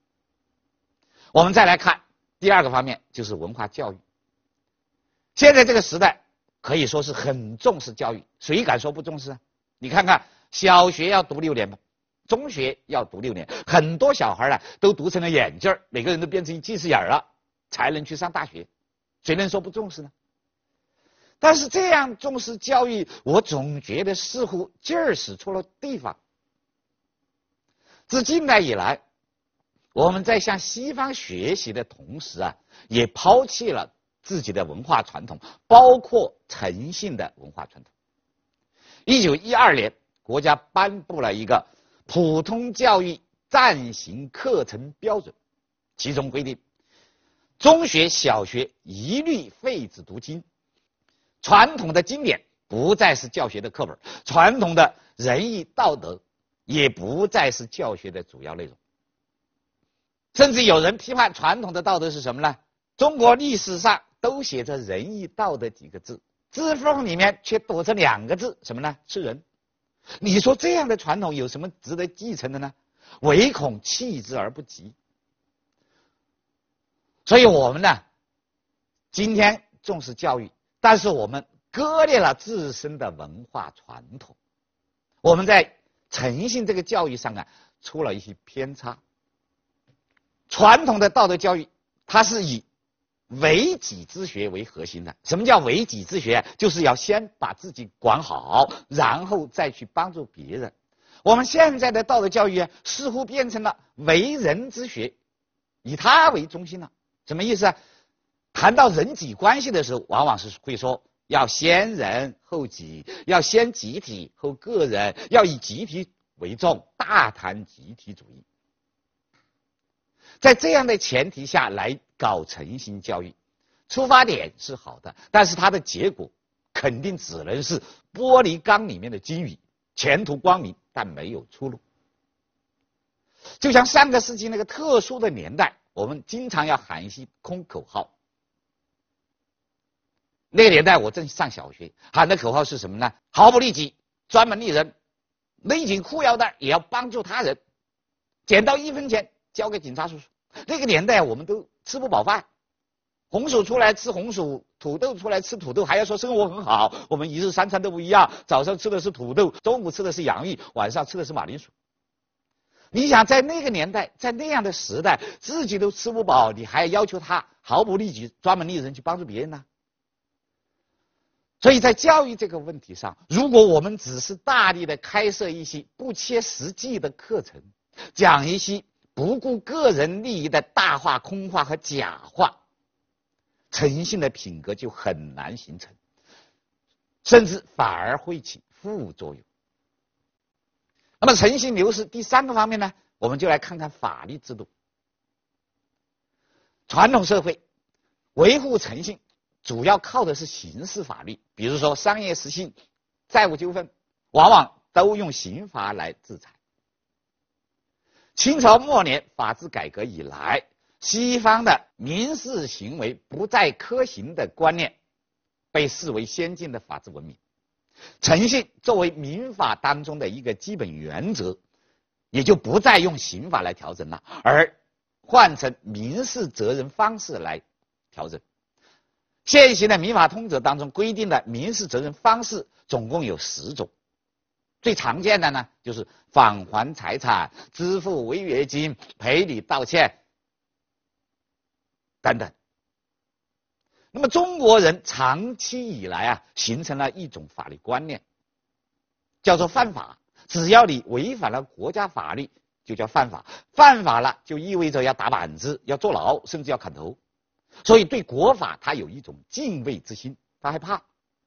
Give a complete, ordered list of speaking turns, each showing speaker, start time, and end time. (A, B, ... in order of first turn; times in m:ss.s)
0:01.3-0:04.0 A
0:05.4-0:11.8 A
0:12.3-0:18.7 A
0:19.2-0:20.1 A
0:21.4-0:26.2 A
0:28.1-0:29.0 A
0:30.0-0:37.9 A
0:39.1-0:45.4 A
0:46.0-0:46.6 A
0:47.6-0:50.4 A
0:51.4-0:58.8 A
1:00.3-1:09.4 A
1:10.2-1:15.0 A
1:17.3-1:18.0 A
1:19.1-1:24.4 A
1:25.2-1:29.0 A
1:30.5-1:32.6 A
1:33.3-1:40.7 A
1:41.2-1:45.2 A
1:45.8-1:47.8 A
1:48.5-1:58.4 A
2:00.4-2:03.3 A
2:03.9-2:11.8 A
2:13.6-2:18.1 A
2:20.5-2:24.9 A
2:25.6-2:27.6 A
2:28.5-2:32.4 A
2:33.3-2:41.7 A
2:42.9-2:49.6 A
2:51.6-3:02.6 A
3:03.7-3:06.0 A
3:07.2-3:09.4 A
3:11.2-3:14.7 A
3:16.9-3:17.6 A
3:18.4-3:22.8 A
3:23.3-3:26.6 A
3:28.4-3:35.0 A
3:35.7-3:37.4 A
3:38.2-3:41.6 A
3:42.3-3:44.7 A
3:45.3-3:48.4 A
3:49.4-3:53.9 A
3:54.8-4:00.2 A
4:02.2-4:02.5 A
4:04.1-4:08.2 A
4:09.4-4:17.2 A
4:17.8-4:21.0 A